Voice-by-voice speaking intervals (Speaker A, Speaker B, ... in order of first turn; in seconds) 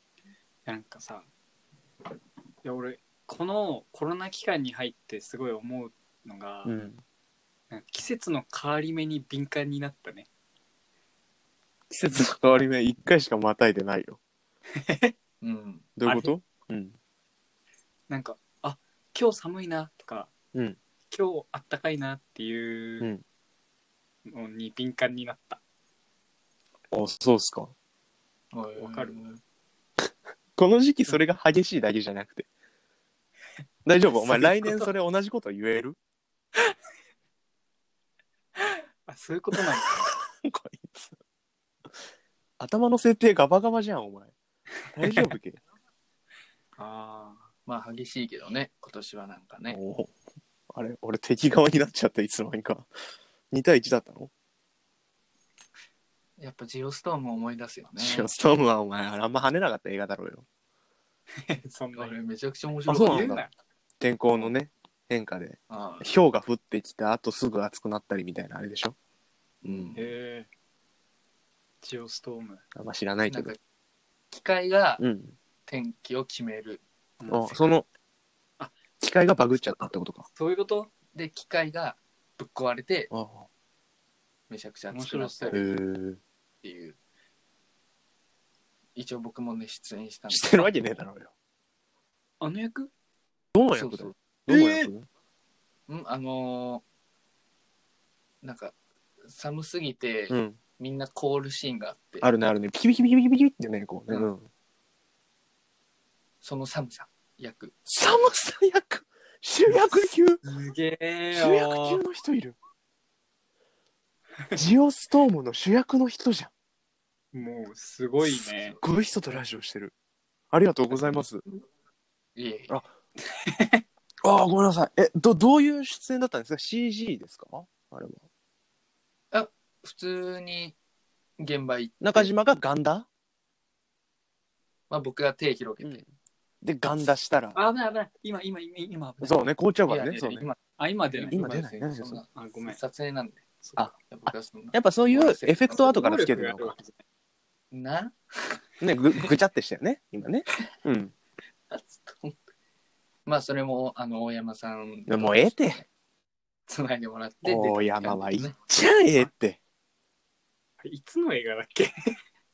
Speaker A: 0.7-1.3, 2.6-6.8, 7.7-10.3, 14.8-15.1, 18.1-20.3, 21.1-23.1, 24.3-25.6, 28.8-29.2, 34.1-34.9, 38.6-40.1, 45.0-45.3, 46.8-47.5, 61.4-62.1, 62.9-63.5, 70.0-70.5, 71.8-72.6, 77.2-77.5, 80.4-80.9, 84.9-85.6, 92.4-92.9, 110.4-112.0, 117.3-118.8, 123.4-123.8, 137.6-139.5, 140.8-141.4, 142.3-142.8, 143.6-143.9, 145.7-146.9, 160.8-162.2
Speaker B: 6.7-7.0, 11.9-14.2, 16.0-16.9, 26.9-27.7, 30.6-32.5, 33.9-36.0, 39.5-41.2, 42.6-44.3, 44.9-45.6, 49.7-50.1, 50.7-52.9, 53.5-54.3, 58.0-60.5, 62.9-63.4, 64.0-69.0, 69.7-70.0, 72.8-73.5, 75.0-75.3, 77.3-77.9, 79.0-80.3, 83.1-83.5, 85.5-86.2, 90.3-91.3, 93.5-95.1, 100.3-100.6, 102.2-104.5, 107.9-110.4, 111.3-112.5, 114.5-116.5, 118.8-119.9, 120.5-121.4, 124.2-128.2, 132.0-133.1, 135.8-136.1, 136.6-137.6, 139.2-140.5, 141.3-142.2, 144.7-146.8, 148.8-151.1, 155.1-155.8, 157.4-159.6
Speaker C: 15.4-15.9, 28.5-29.4, 47.7-49.8, 56.4-58.3, 62.0-63.4, 65.7-66.1, 69.6-70.0, 73.3-73.6, 74.3-75.0, 75.7-76.8, 81.1-83.1, 84.5-85.6, 86.6-87.0, 89.0-90.7, 93.8-94.9, 95.9-96.8, 98.4-98.7, 99.3-102.3, 106.4-107.7, 118.5-118.8, 122.4-122.8, 129.3-130.8, 131.4-132.3, 134.9-136.0, 139.9-143.5, 144.0-145.7, 147.7-148.6, 151.7-152.4, 153.3-155.8, 156.7-158.6